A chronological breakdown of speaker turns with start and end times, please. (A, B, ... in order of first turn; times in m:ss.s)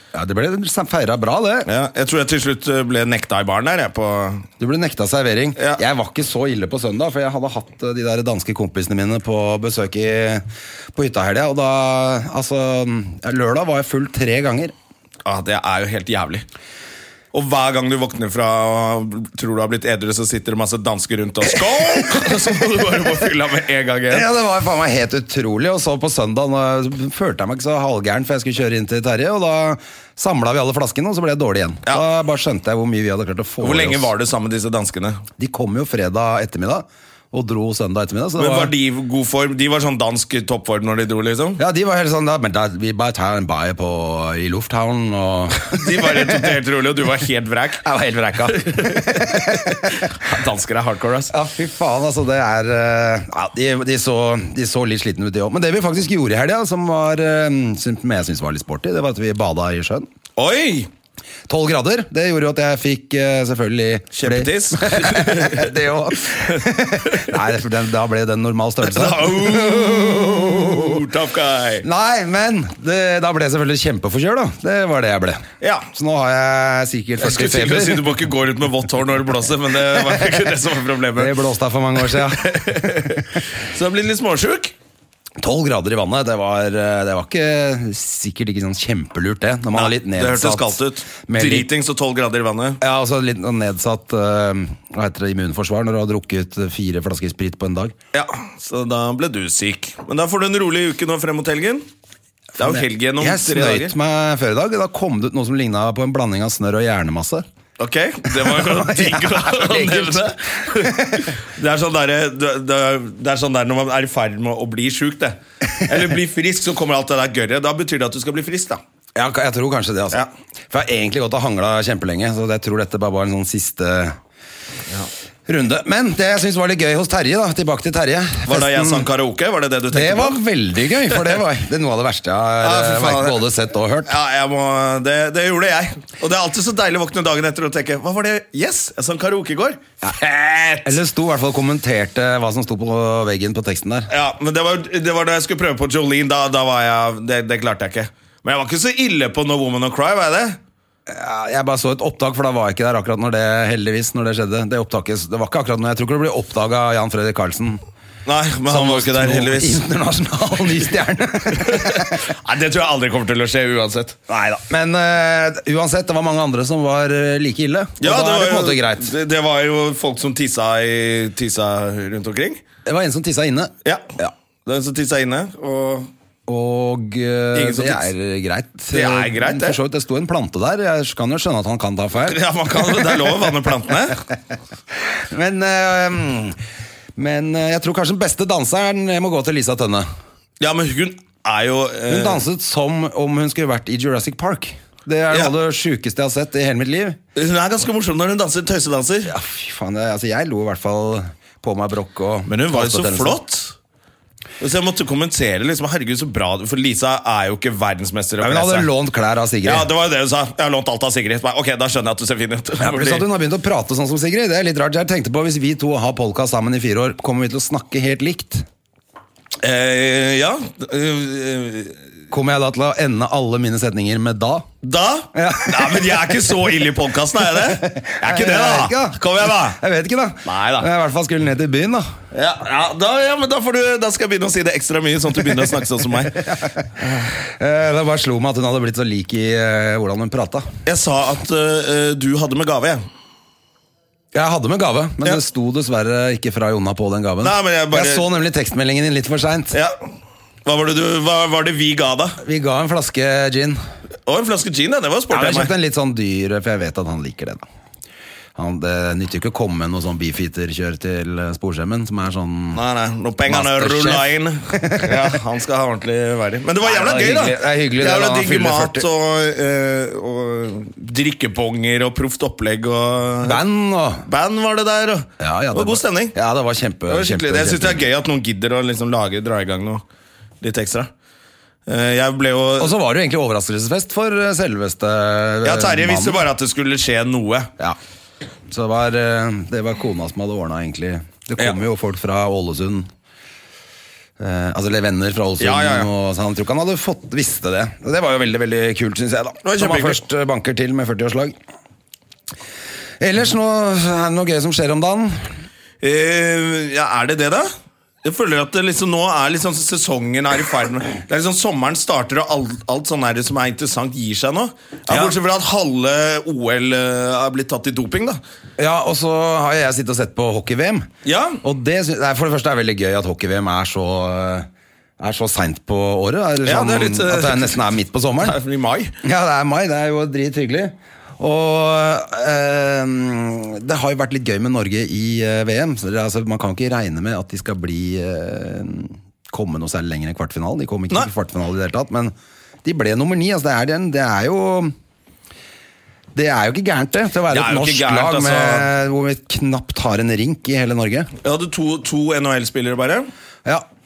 0:00.1-0:01.7 A
0:01.7-0:04.5 B
0:04.6-0:14.7 A
0:15.2-0:16.4 B
0:17.3-0:24.3 B
0:24.1-0:34.1 A
0:33.6-0:35.2 B
0:35.4-0:38.7 A
0:38.4-0:41.6 B
0:41.6-0:46.2 A
0:45.7-0:47.9 B
0:47.8-0:50.0 A
0:48.5-0:51.3 B
0:51.3-1:00.1 A
1:00.4-1:00.9 B
1:01.5-1:11.0 A
1:04.1-1:05.7 B
1:08.9-1:11.8 B
1:11.8-1:18.1 A
1:15.6-1:15.9 B
1:17.2-1:21.3 B
1:21.2-1:23.2 A
1:22.1-1:24.7 B
1:25.4-1:30.8 A
1:29.8-1:32.8 B
1:31.3-1:31.7 A
1:32.8-1:38.0 A
1:38.1-1:41.8 B
1:42.6-1:43.9 B
1:42.6-1:47.4 A
1:47.8-1:58.8 B
1:48.4-1:51.3 A
1:59.2-2:04.2 A
2:05.5-2:09.0 A
2:08.5-2:10.4 B
2:09.9-2:14.1 A
2:12.6-2:13.4 B
2:14.1-2:21.0 B
2:20.8-2:24.1 A
2:24.1-2:30.6 B
2:31.1-2:37.8 A
2:38.3-2:39.8 B
2:38.7-2:42.2 A
2:41.6-2:44.2 B
2:44.3-2:49.1 A
2:48.0-2:52.6 B
2:52.9-2:54.3 A
2:53.8-2:56.1 B
2:56.5-3:02.4 A
2:57.6-2:58.1 B
2:58.9-2:59.8 B
3:02.3-3:04.2 B
3:05.1-3:06.6 A
3:07.2-3:10.1 A
3:10.6-3:12.4 B
3:12.1-3:17.2 A
3:17.4-3:19.3 B
3:19.3-3:23.4 A
3:22.5-3:23.7 B
3:24.6-3:28.9 B
3:28.4-3:29.9 A
3:29.6-3:33.2 B
3:32.8-3:38.6 A
3:39.6-3:42.0 B
3:42.3-3:44.7 A
3:44.8-3:49.8 B
3:45.4-3:46.2 A
3:47.6-3:52.1 A
3:50.4-3:50.9 B
3:52.3-3:56.4 B
3:56.5-4:00.7 A
4:00.8-4:03.0 B
4:04.3-4:09.8 A
4:07.4-4:08.3 B
4:10.6-4:12.4 B
4:12.4-4:13.8 A
4:14.3-4:15.7 B
4:15.3-4:17.6 A
4:18.6-4:22.8 A
4:22.7-4:33.6 B
4:23.5-4:25.3 A
4:26.8-4:29.0 A
4:33.4-4:34.3 A
4:34.2-4:36.4 B
4:35.4-4:38.0 A
4:37.1-4:40.0 B
4:40.6-4:41.1 B
4:41.9-4:42.9 B
4:42.8-4:46.4 A
4:45.6-4:47.7 B
4:48.7-4:53.1 A
4:54.4-5:01.6 A
4:55.6-4:56.1 B
4:59.6-5:00.2 B
5:03.2-5:05.4 A
5:06.0-5:07.7 B
5:08.2-5:18.4 B
5:15.1-5:15.4 A
5:18.8-5:21.1 A
5:21.2-5:21.6 B
5:21.6-5:24.7 A
5:25.2-5:28.6 A
5:26.6-5:29.2 B
5:29.2-5:42.3 A
5:42.8-5:44.9 A
5:46.4-5:51.3 A
5:47.5-5:48.9 B
5:51.4-5:53.3 B